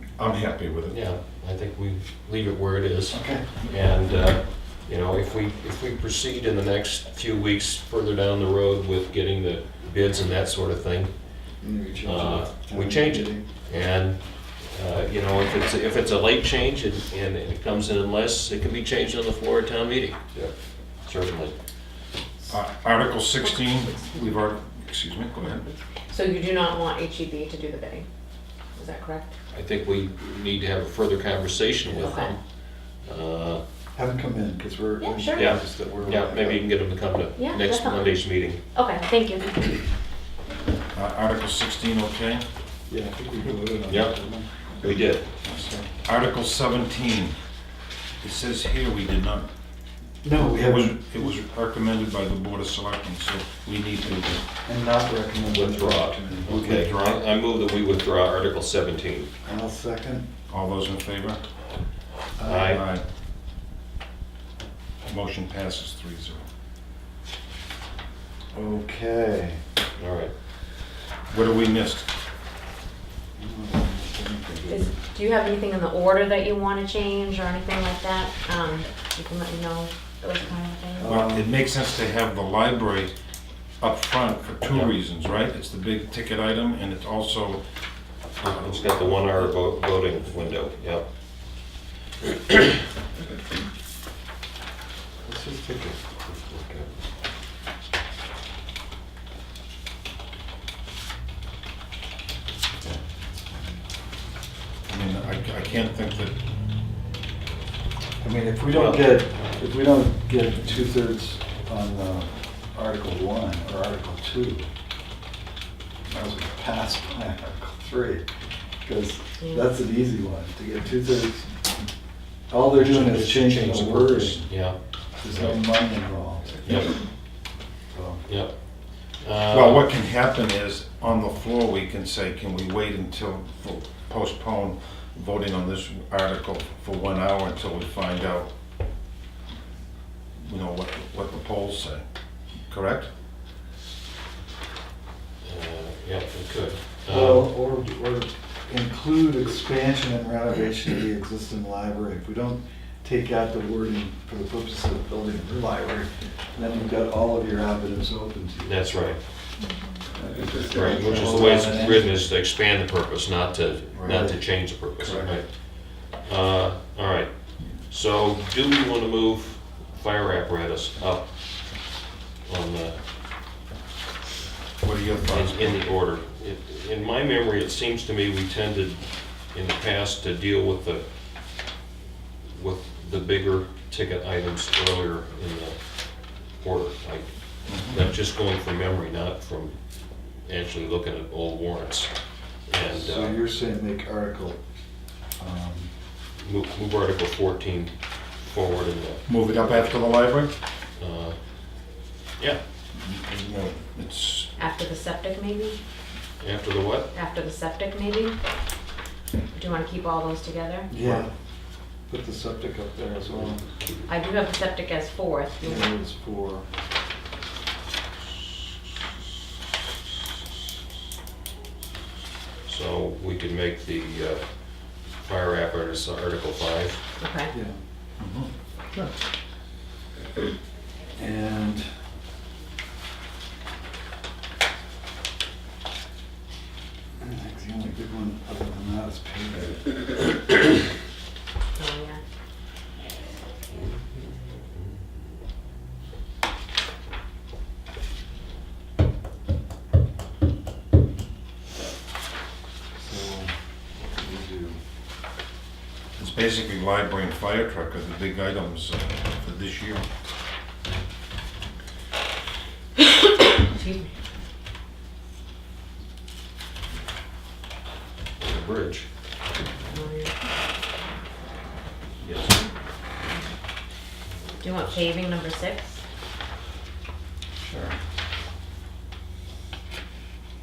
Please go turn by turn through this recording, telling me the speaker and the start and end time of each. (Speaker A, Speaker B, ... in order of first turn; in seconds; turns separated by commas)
Speaker A: 0.2-1.0, Speaker B: 0.9-11.1, Speaker C: 3.1-3.6, Speaker C: 11.6-13.4, Speaker B: 12.0-20.5, Speaker B: 21.0-21.5, Speaker A: 22.5-25.6, Speaker D: 23.6-24.2, Speaker D: 25.6-28.1, Speaker D: 28.8-29.3, Speaker B: 29.5-33.6, Speaker D: 31.9-32.3, Speaker C: 33.9-36.7, Speaker D: 35.0-35.5, Speaker B: 35.3-38.6, Speaker D: 37.4-38.1, Speaker D: 38.7-39.8, Speaker A: 40.9-42.4, Speaker C: 42.9-44.5, Speaker B: 43.9-44.2, Speaker B: 44.7-45.2, Speaker A: 45.4-47.3, Speaker A: 48.2-49.5, Speaker C: 50.2-51.3, Speaker A: 50.4-54.4, Speaker C: 54.6-56.8, Speaker B: 55.5-59.3, Speaker A: 56.5-57.2, Speaker C: 59.4-60.3, Speaker A: 60.5-61.4, Speaker C: 62.4-62.8, Speaker B: 62.4-62.8, Speaker A: 62.6-63.0, Speaker A: 65.0-66.4, Speaker C: 68.5-69.6, Speaker B: 70.0-70.3, Speaker A: 71.3-72.1, Speaker C: 73.4-74.9, Speaker D: 74.7-81.1, Speaker C: 81.0-81.5, Speaker A: 81.0-83.1, Speaker A: 83.8-87.6, Speaker B: 84.7-84.9, Speaker B: 88.4-91.0, Speaker C: 95.2-96.9, Speaker A: 104.9-106.3, Speaker C: 108.2-114.7, Speaker B: 108.7-109.2, Speaker C: 116.1-118.2, Speaker C: 118.8-121.5, Speaker D: 119.4-119.7, Speaker C: 122.5-124.4, Speaker B: 122.7-125.8, Speaker C: 125.2-127.0, Speaker B: 126.6-127.0, Speaker C: 127.9-128.2, Speaker B: 128.2-129.9, Speaker A: 129.5-138.5, Speaker A: 140.4-142.0, Speaker A: 142.7-143.1, Speaker B: 145.4-147.5, Speaker C: 147.1-158.8, Speaker B: 158.6-159.2, Speaker D: 159.6-159.9, Speaker C: 160.1-162.2, Speaker B: 160.7-171.7, Speaker C: 164.0-164.4, Speaker C: 165.0-165.3, Speaker B: 172.4-173.0, Speaker A: 174.8-175.8, Speaker B: 175.3-181.0, Speaker B: 182.5-189.8, Speaker A: 187.7-188.1, Speaker B: 190.3-192.1, Speaker B: 192.7-193.4, Speaker C: 192.9-194.6, Speaker C: 195.4-195.9, Speaker B: 196.4-200.0, Speaker A: 199.2-200.5, Speaker B: 201.0-201.4, Speaker A: 203.0-204.5, Speaker D: 204.6-205.8, Speaker B: 206.4-207.1, Speaker D: 207.1-208.3, Speaker D: 209.5-210.9, Speaker C: 210.9-211.3, Speaker C: 212.1-213.6, Speaker D: 214.1-215.9, Speaker C: 215.6-216.6, Speaker B: 222.7-227.0, Speaker D: 227.2-227.5, Speaker A: 228.2-229.1, Speaker C: 231.2-231.8, Speaker C: 237.2-239.8, Speaker D: 241.7-242.2, Speaker B: 243.7-244.9, Speaker C: 253.0-253.5, Speaker C: 254.0-254.8, Speaker A: 256.2-260.0, Speaker D: 263.4-264.2, Speaker B: 268.4-269.1, Speaker D: 269.9-270.3, Speaker B: 272.2-272.6, Speaker D: 274.6-276.0, Speaker B: 277.6-277.9